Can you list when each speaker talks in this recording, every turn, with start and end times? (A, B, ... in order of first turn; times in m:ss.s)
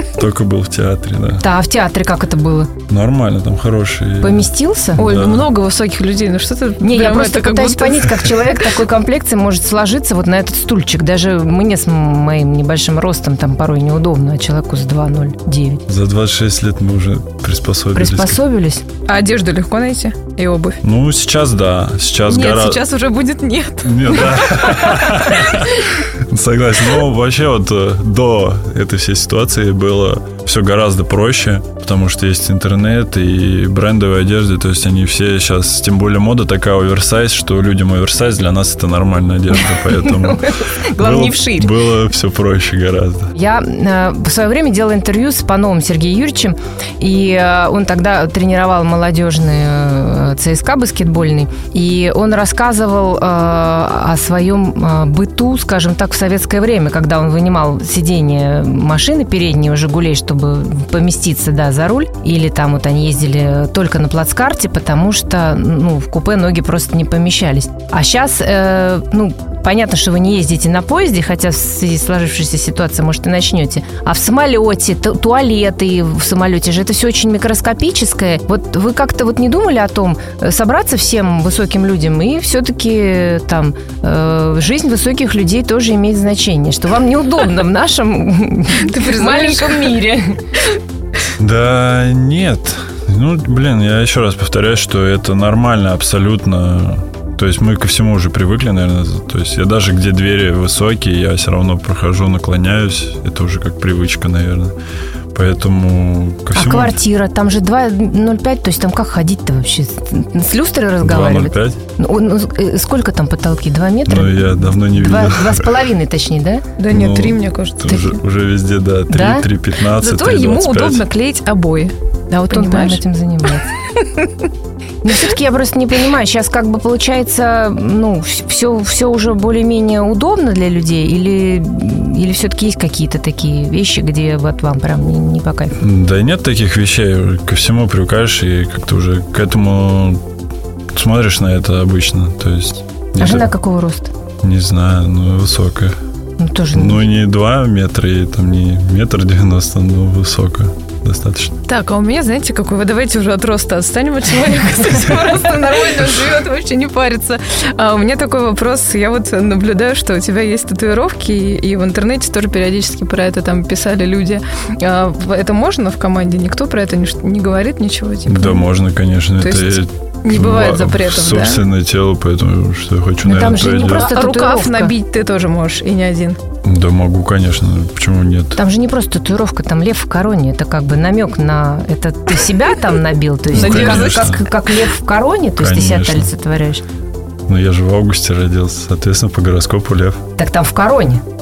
0:00.1-0:01.4 A
0:01.4-0:02.7 B
0:02.9-0:05.5 A
0:04.2-0:05.0 B
0:05.0-0:08.3 C
0:06.8-0:15.8 B
0:15.9-0:18.4 A
0:17.9-0:18.8 B
0:19.1-0:20.8 C
0:20.8-0:22.8 A
0:22.3-0:25.8 C
0:23.8-0:43.3 A
0:39.6-0:41.7 B
0:43.3-1:30.4 B
1:28.8-1:30.0 C
1:31.4-1:44.7 A
1:45.3-1:47.0 A
1:46.5-1:56.6 B
1:51.0-1:51.8 A
1:54.0-1:55.7 A
1:56.8-1:58.2 C
1:56.9-2:01.0 A
1:59.1-1:59.5 B
1:59.9-2:03.0 C
2:02.3-2:03.7 B
2:05.0-2:15.8 B
2:15.8-2:20.2 A
2:20.9-2:23.5 A
2:23.2-2:24.1 B
2:24.4-2:26.0 A
2:26.4-2:27.0 B
2:26.7-2:31.6 A
2:31.7-2:48.6 C
2:48.2-2:54.1 A
2:49.4-2:51.6 C
2:53.2-2:54.9 B
2:53.8-2:56.4 C
2:56.6-2:58.6 A
2:58.6-3:06.8 B
3:03.5-3:04.5 A
3:03.5-3:04.4 C
3:05.6-3:06.3 A
3:07.5-3:10.2 A
3:10.4-3:11.2 B